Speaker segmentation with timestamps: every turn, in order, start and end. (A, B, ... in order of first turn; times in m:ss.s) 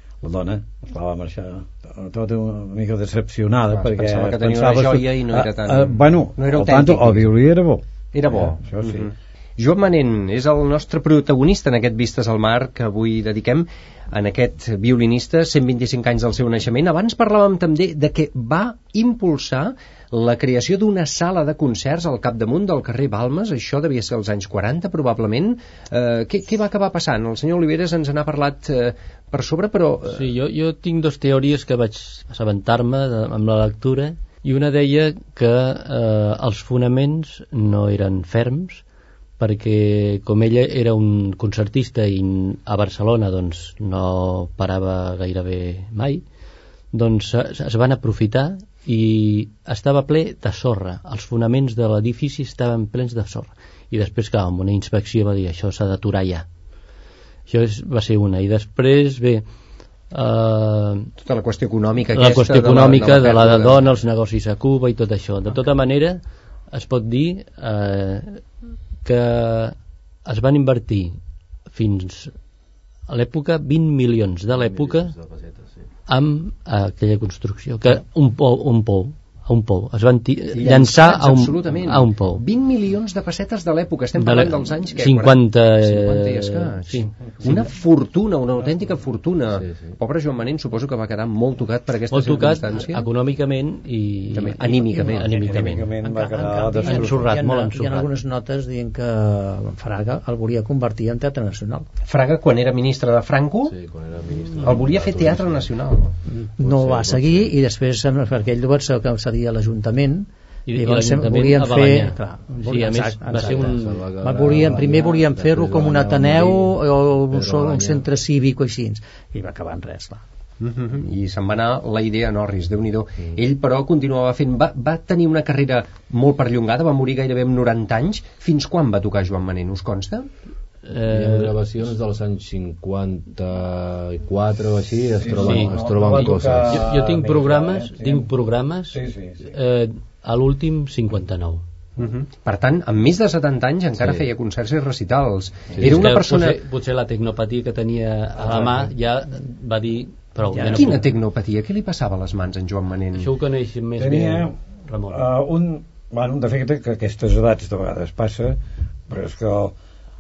0:00.2-0:09.1 A
0:03.7-0:07.3 B
0:08.1-0:30.3 B
0:30.1-0:38.8 C
0:39.4-0:46.2 C
0:46.9-0:56.5 C
0:57.5-0:59.5 C
1:00.1-1:01.1 C
1:01.2-1:03.8 B
1:02.1-1:08.4 C
1:09.0-1:12.4 C
1:13.1-1:15.2 C
1:14.5-1:15.9 D
1:16.1-1:22.4 C
1:20.5-1:33.1 B
1:24.2-1:27.7 C
1:29.5-1:30.0 D
1:32.1-1:35.8 C
1:34.3-1:36.0 B
1:35.2-1:37.3 A
1:36.0-1:41.9 E
1:36.8-1:38.1 C
1:42.1-1:43.8 B
1:43.7-1:45.7 D
1:44.6-1:46.2 B
1:46.4-1:47.6 D
1:46.6-2:00.2 E
1:50.7-1:54.8 C
1:53.3-1:58.0 D
2:00.6-2:10.3 B
2:10.8-2:11.6 C
2:11.1-2:16.9 D
2:15.2-2:18.3 A
2:15.4-2:21.6 C
2:18.9-2:19.5 A
2:22.0-2:26.6 B
2:24.0-2:24.2 D
2:25.8-2:26.1 D
2:25.8-2:31.1 C
2:28.5-2:28.9 A
2:30.5-2:31.0 E
2:30.7-2:33.3 B
2:33.1-2:35.3 C
2:34.0-2:34.6 A
2:35.1-2:39.8 A